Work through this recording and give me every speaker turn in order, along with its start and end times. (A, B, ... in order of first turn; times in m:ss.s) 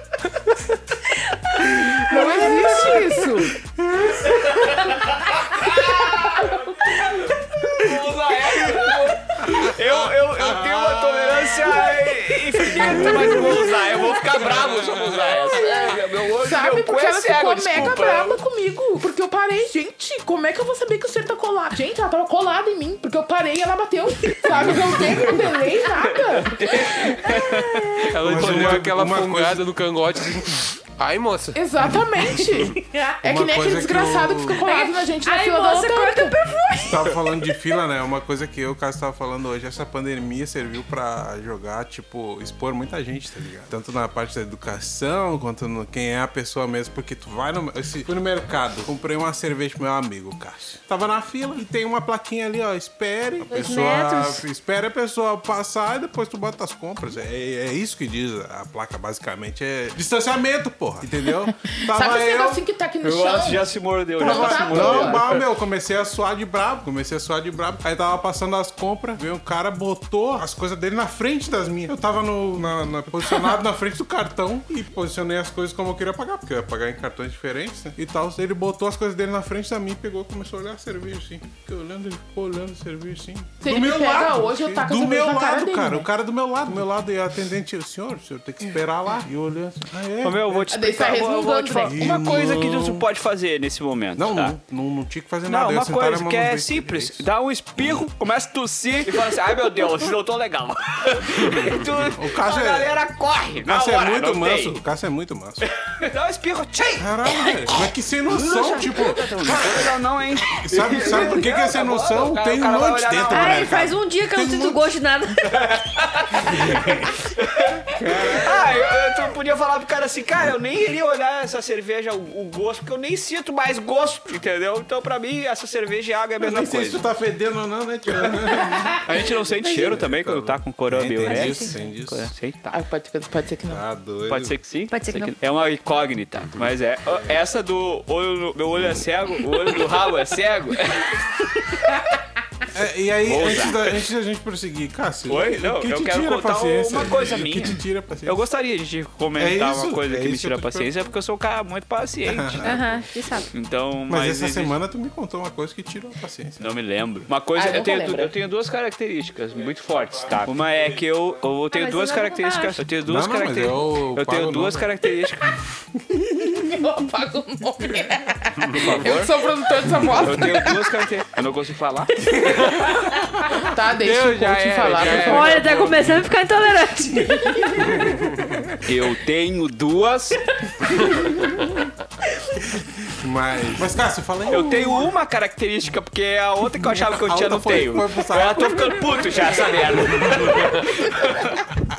0:01.3-0:03.1 A
0:02.1-0:03.5 B
0:03.5-0:04.9 C
0:04.2-0:18.4 D
0:08.6-0:11.8 C
0:12.6-0:15.1 C
0:15.2-0:27.4 B
0:24.5-0:25.3 C
0:26.4-0:28.7 D
0:27.3-0:27.9 A
0:28.0-0:31.7 E
0:28.2-0:29.6 C
0:31.5-0:36.4 B
0:32.9-0:33.2 A
0:33.2-0:34.7 C
0:34.6-0:37.2 A
0:36.8-1:02.6 C
0:53.5-0:54.4 A
1:01.8-1:05.2 B
1:03.0-1:05.4 D
1:04.2-1:30.7 C
1:23.6-1:26.1 B
1:30.2-1:34.5 D
1:30.7-1:32.3 B
1:31.8-1:33.0 C
1:34.2-1:37.2 C
1:35.5-1:44.8 D
1:42.1-1:43.0 C
1:43.6-1:45.7 C
1:45.6-1:53.7 D
1:47.0-1:55.0 C
1:53.3-1:55.8 A
1:55.5-1:56.6 D
1:56.4-1:57.2 C
1:57.4-2:07.0 D
1:57.9-1:58.8 C
2:06.4-2:12.3 C
2:08.9-2:12.8 D
2:11.2-2:11.8 A
2:12.7-2:13.8 B
2:13.7-2:14.6 C
2:14.3-2:21.9 D
2:14.9-2:15.3 A
2:22.7-2:28.4 C
2:23.2-2:24.0 D
2:25.3-2:32.8 D
2:29.4-2:30.9 C
2:32.2-2:33.0 C
2:32.6-2:33.5 A
2:33.5-2:34.8 D
2:34.1-2:36.7 C
2:36.6-2:45.6 D
2:37.6-2:38.3 B
2:41.7-2:42.8 A
2:43.0-2:44.9 C
2:46.4-2:50.8 B
2:48.7-2:49.3 D
2:50.2-2:52.9 D
2:53.6-2:55.6 B
2:54.0-2:56.1 C
2:54.9-2:55.4 E
2:54.9-2:56.0 D
2:55.2-2:58.2 A
2:57.8-2:58.7 C
2:58.8-3:00.4 D
3:03.1-3:04.8 C
3:04.5-3:11.7 D
3:04.5-3:05.0 A
3:07.0-3:09.2 C
3:09.9-3:10.6 C